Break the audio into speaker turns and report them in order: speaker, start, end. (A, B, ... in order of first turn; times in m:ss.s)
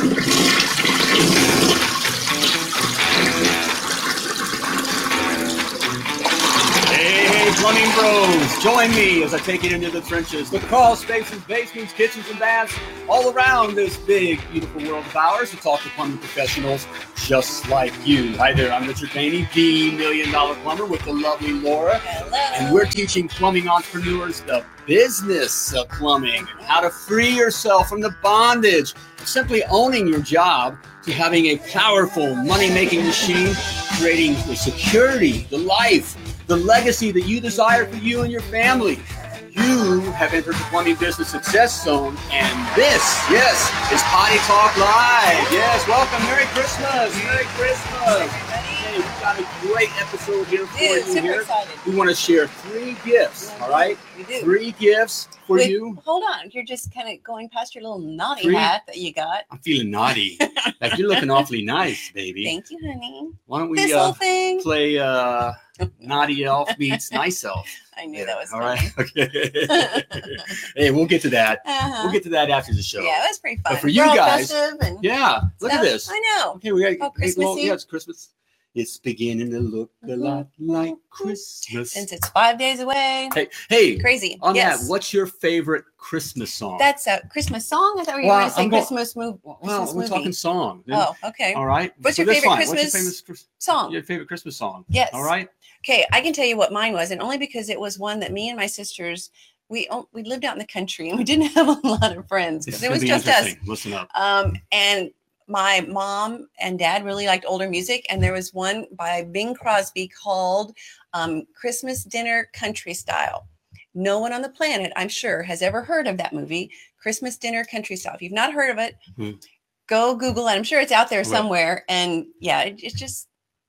0:06.9-0:56.0 A
0:22.0-0:23.0 B
0:47.3-0:49.0 B
0:50.7-0:51.8 B
0:53.4-0:54.5 B
0:55.5-0:59.5 B
0:58.4-0:58.7 A
0:59.5-1:02.6 A
1:00.4-1:01.4 B
1:02.4-1:04.7 B
1:03.5-1:22.0 A
1:06.6-1:07.2 B
1:07.9-1:08.9 B
1:09.7-1:10.6 B
1:11.6-1:12.2 B
1:13.0-1:15.1 B
1:15.6-1:17.8 B
1:20.2-1:23.4 B
1:23.3-1:26.9 A
1:24.0-1:24.9 B
1:26.8-1:30.3 B
1:28.2-1:28.9 A
1:29.5-1:35.5 A
1:30.9-1:34.0 B
1:34.9-1:35.3 B
1:35.8-1:43.6 B
1:42.7-1:44.1 A
1:44.1-1:59.0 B
1:59.9-2:03.3 B